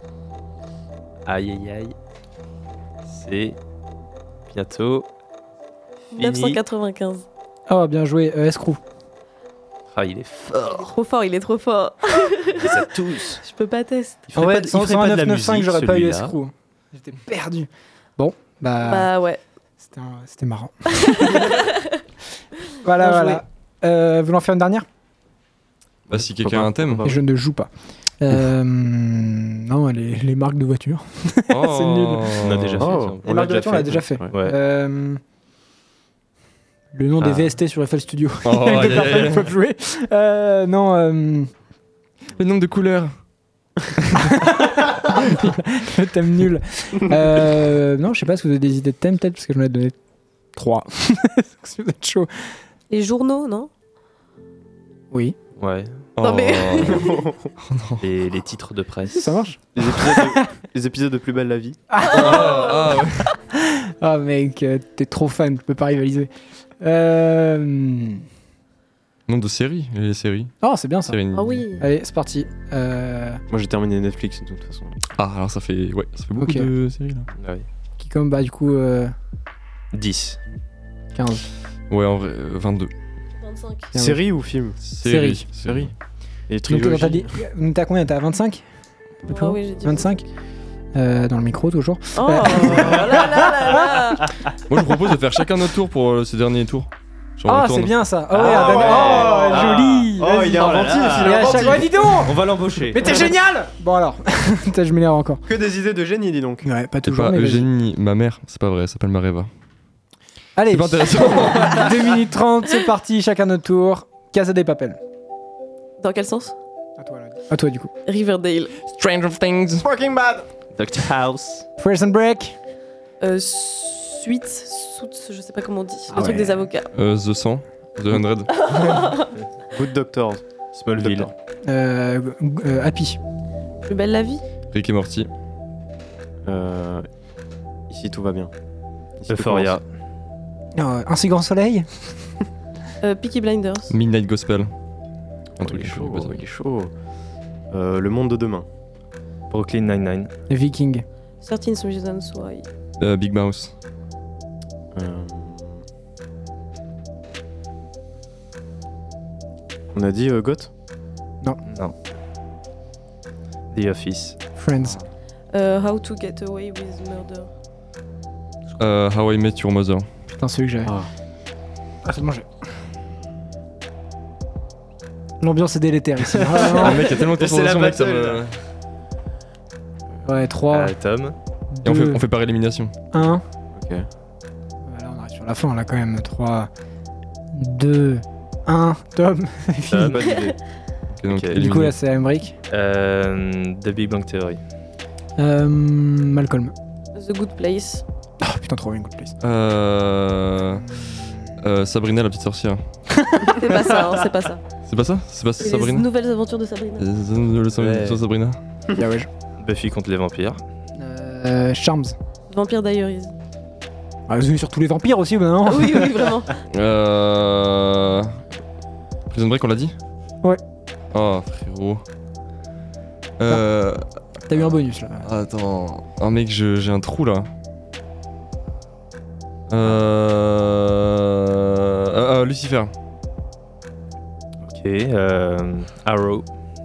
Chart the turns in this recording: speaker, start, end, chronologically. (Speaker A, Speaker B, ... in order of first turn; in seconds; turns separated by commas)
Speaker A: 1.3-1.9, Speaker A: 3.1-3.6, Speaker A: 4.5-5.1, Speaker B: 6.1-7.3, Speaker A: 6.2-6.6, Speaker C: 7.7-8.8, Speaker A: 9.9-10.9, Speaker B: 10.6-14.2, Speaker A: 12.5-13.4, Speaker A: 14.3-16.3, Speaker C: 14.3-19.1, Speaker B: 18.8-19.4, Speaker C: 19.8-21.5, Speaker B: 21.1-21.9, Speaker C: 22.8-24.9, Speaker B: 23.0-23.4, Speaker D: 26.1-27.2, Speaker E: 26.1-27.0, Speaker C: 27.0-27.7, Speaker C: 28.2-32.4, Speaker E: 31.5-32.9, Speaker A: 32.4-34.5, Speaker D: 32.8-33.2, Speaker C: 33.2-35.2, Speaker C: 36.9-41.5, Speaker E: 38.5-39.5, Speaker E: 42.4-43.2, Speaker C: 44.3-50.0, Speaker C: 50.6-52.5, Speaker B: 52.9-53.7, Speaker A: 55.6-56.0, Speaker E: 56.2-57.0, Speaker B: 56.2-57.1, Speaker D: 56.9-57.4, Speaker E: 57.7-58.0, Speaker A: 58.0-59.4, Speaker C: 59.1-60.5, Speaker D: 59.8-61.8, Speaker C: 61.9-62.5, Speaker E: 62.1-63.3, Speaker B: 62.1-62.9, Speaker C: 63.5-68.2, Speaker E: 69.3-70.5, Speaker C: 70.6-71.2, Speaker E: 71.1-71.6, Speaker B: 71.3-71.8, Speaker C: 71.8-73.4, Speaker D: 73.5-75.0, Speaker E: 75.2-77.3, Speaker C: 76.4-76.7, Speaker A: 77.4-77.7, Speaker C: 78.0-79.1, Speaker A: 79.9-80.4, Speaker C: 81.2-81.5, Speaker E: 81.9-82.9, Speaker B: 83.4-83.9, Speaker C: 83.9-84.2, Speaker D: 84.0-84.8, Speaker E: 84.9-85.9, Speaker C: 85.0-85.5, Speaker D: 85.6-85.9, Speaker D: 86.5-87.4, Speaker C: 86.7-88.6, Speaker C: 89.3-90.2, Speaker B: 89.3-90.1, Speaker C: 90.9-93.9, Speaker B: 92.2-94.3, Speaker A: 92.8-93.5, Speaker E: 94.7-98.0, Speaker C: 97.5-105.5, Speaker A: 98.3-103.2, Speaker D: 98.4-102.0, Speaker D: 105.5-106.7, Speaker C: 106.6-107.7, Speaker E: 107.0-109.5, Speaker C: 110.6-115.0, Speaker E: 110.7-112.1, Speaker B: 116.0-116.5, Speaker C: 117.0-117.9, Speaker B: 118.0-118.8, Speaker E: 118.8-119.9, Speaker D: 120.0-120.4, Speaker A: 120.7-121.7, Speaker C: 121.8-122.5, Speaker B: 123.2-126.9, Speaker C: 126.1-126.7, Speaker E: 126.9-128.5, Speaker B: 128.6-129.3, Speaker D: 129.7-130.4, Speaker A: 130.7-131.3, Speaker D: 130.9-131.3, Speaker C: 131.7-133.2, Speaker B: 133.9-134.4, Speaker E: 134.7-135.3, Speaker D: 136.4-137.1, Speaker D: 137.9-138.5, Speaker D: 139.2-139.8, Speaker A: 139.3-139.8, Speaker C: 140.8-142.1, Speaker B: 143.0-144.0, Speaker E: 143.9-144.7, Speaker E: 145.6-146.4, Speaker D: 145.6-146.9, Speaker D: 147.7-148.7, Speaker A: 149.5-150.3, Speaker C: 150.5-151.1, Speaker B: 151.4-152.7, Speaker E: 153.0-153.7, Speaker D: 154.9-155.8, Speaker D: 159.9-160.7, Speaker A: 161.7-161.9, Speaker A: 163.7-164.4, Speaker C: 164.6-165.0, Speaker B: 165.5-167.5, Speaker E: 168.8-170.1, Speaker C: 170.3-170.9, Speaker D: 170.8-171.1, Speaker C: 172.1-172.5, Speaker C: 175.4-177.0, Speaker A: 176.4-178.4, Speaker E: 176.8-178.6, Speaker C: 180.2-180.9, Speaker A: 180.7-181.3, Speaker C: 181.7-182.2, Speaker E: 181.8-182.9, Speaker C: 183.1-183.4, Speaker D: 183.7-184.1, Speaker C: 184.8-186.7, Speaker C: 187.5-190.2, Speaker A: 189.9-190.5, Speaker D: 190.2-190.5, Speaker B: 190.3-190.5, Speaker E: 191.2-192.0, Speaker A: 191.3-191.6, Speaker C: 191.5-192.6, Speaker A: 192.7-194.6, Speaker C: 195.4-196.7, Speaker B: 197.2-198.0, Speaker C: 198.4-199.3, Speaker E: 199.4-200.9, Speaker E: 201.6-202.8, Speaker C: 203.2-203.5, Speaker B: 203.5-204.6, Speaker A: 203.8-204.1, Speaker E: 204.8-206.1, Speaker B: 205.6-207.1, Speaker E: 207.0-208.6, Speaker A: 207.7-208.2, Speaker C: 209.0-209.3, Speaker A: 209.6-210.6, Speaker C: 211.0-212.2, Speaker B: 212.5-213.3, Speaker C: 214.3-216.1, Speaker B: 215.7-216.6, Speaker E: 216.7-218.4, Speaker E: 219.3-219.9, Speaker E: 221.1-222.0, Speaker E: 223.4-224.0, Speaker C: 224.5-225.3, Speaker E: 225.2-227.5, Speaker E: 229.7-232.9, Speaker A: 234.7-236.5